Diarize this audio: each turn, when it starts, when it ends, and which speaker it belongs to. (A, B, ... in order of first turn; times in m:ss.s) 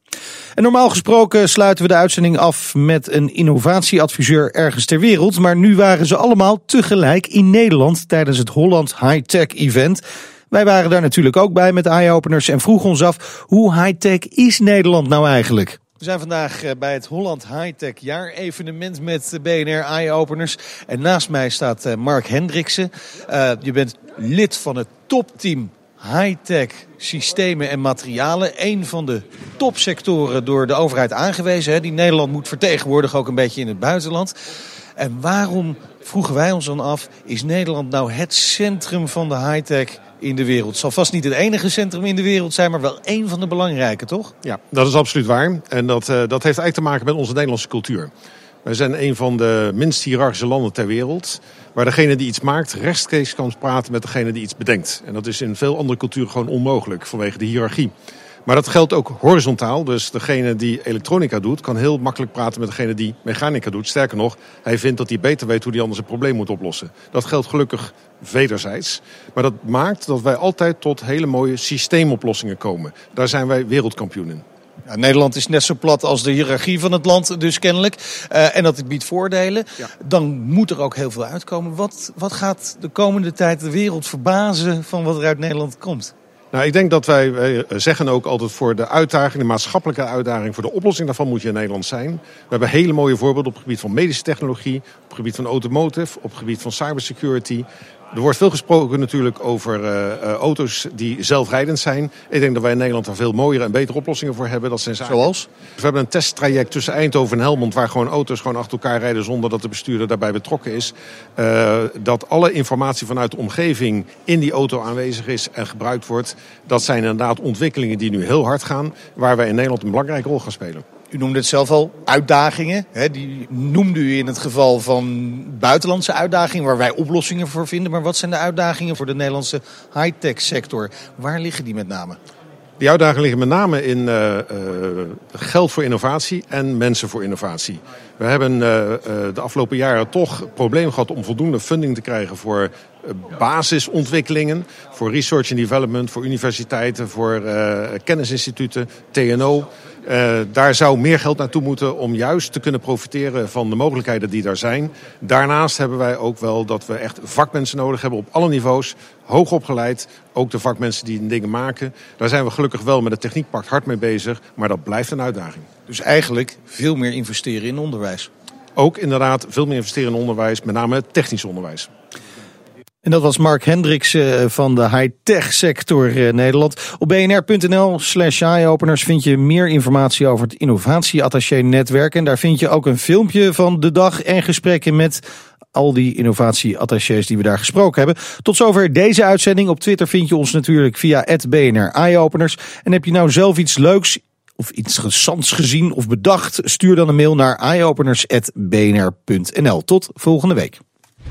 0:00.6-0:34.3 A
0:35.0-0:44.3 A
0:44.4-0:48.1 B
0:48.6-0:57.9 B
0:58.4-1:14.4 B
1:14.9-1:26.1 A
1:26.5-1:45.2 B
1:45.0-1:45.4 A
1:45.8-2:00.8 B
2:01.1-2:12.2 A
2:12.8-2:45.7 B
2:45.9-2:48.3 A
2:48.8-2:51.9 B
2:53.0-3:05.2 A
3:05.7-3:20.8 A